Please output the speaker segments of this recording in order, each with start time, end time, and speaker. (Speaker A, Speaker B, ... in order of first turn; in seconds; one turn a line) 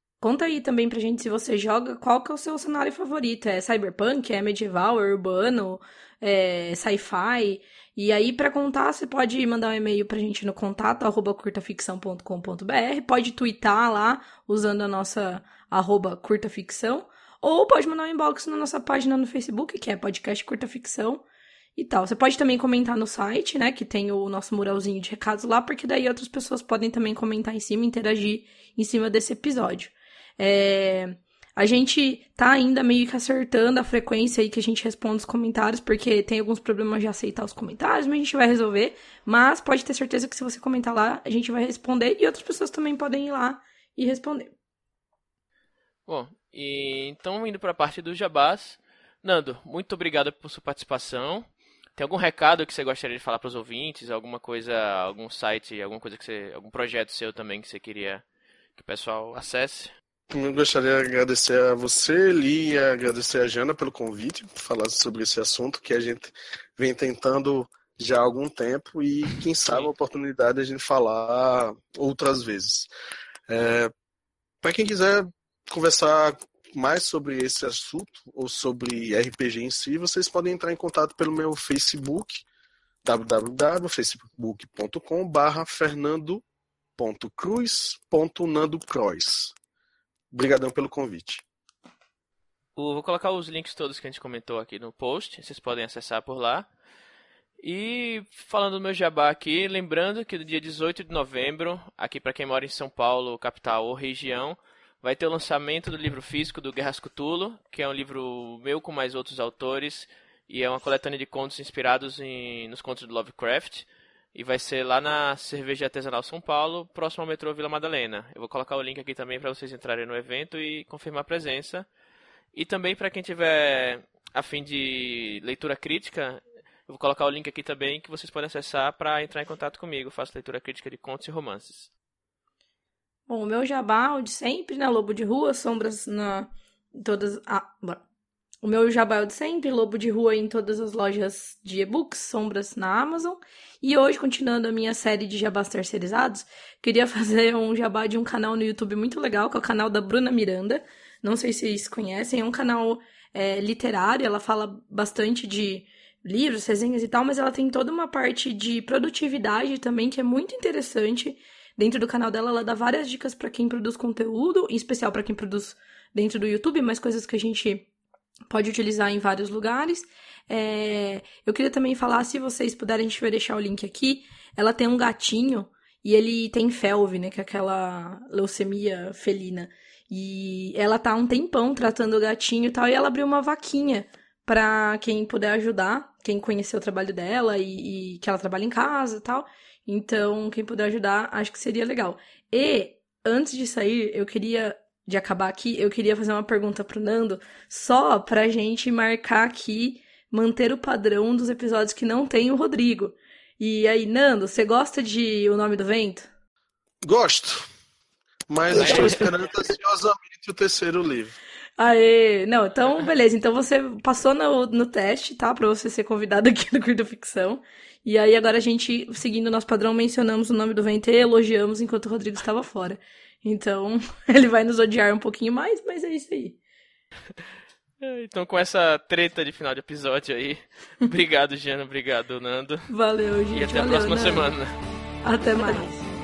Speaker A: 0.2-21.2
Speaker A: 21.8-44.5
Speaker B: 46.1-58.2
Speaker B: 58.8-59.9
Speaker C: 60.3-72.9
Speaker C: 73.5-73.9
Speaker C: 74.6-82.5
Speaker C: 83.0-86.4
Speaker C: 87.0-89.6
Speaker C: 90.3-91.4
Speaker B: 92.8-96.7
Speaker B: 97.6-121.9
Speaker B: 122.5-131.9
Speaker A: 133.3-138.0
Speaker A: 138.6-167.9
Speaker A: 168.5-206.3
Speaker C: 207.0-207.7
Speaker C: 208.5-211.4
Speaker A: 208.8-209.3
Speaker B: 208.8-209.3
Speaker A: 211.8-226.6
Speaker B: 228.0-232.9
Speaker A: 232.9-234.5
Speaker B: 233.5-234.7
Speaker A: 235.2-236.1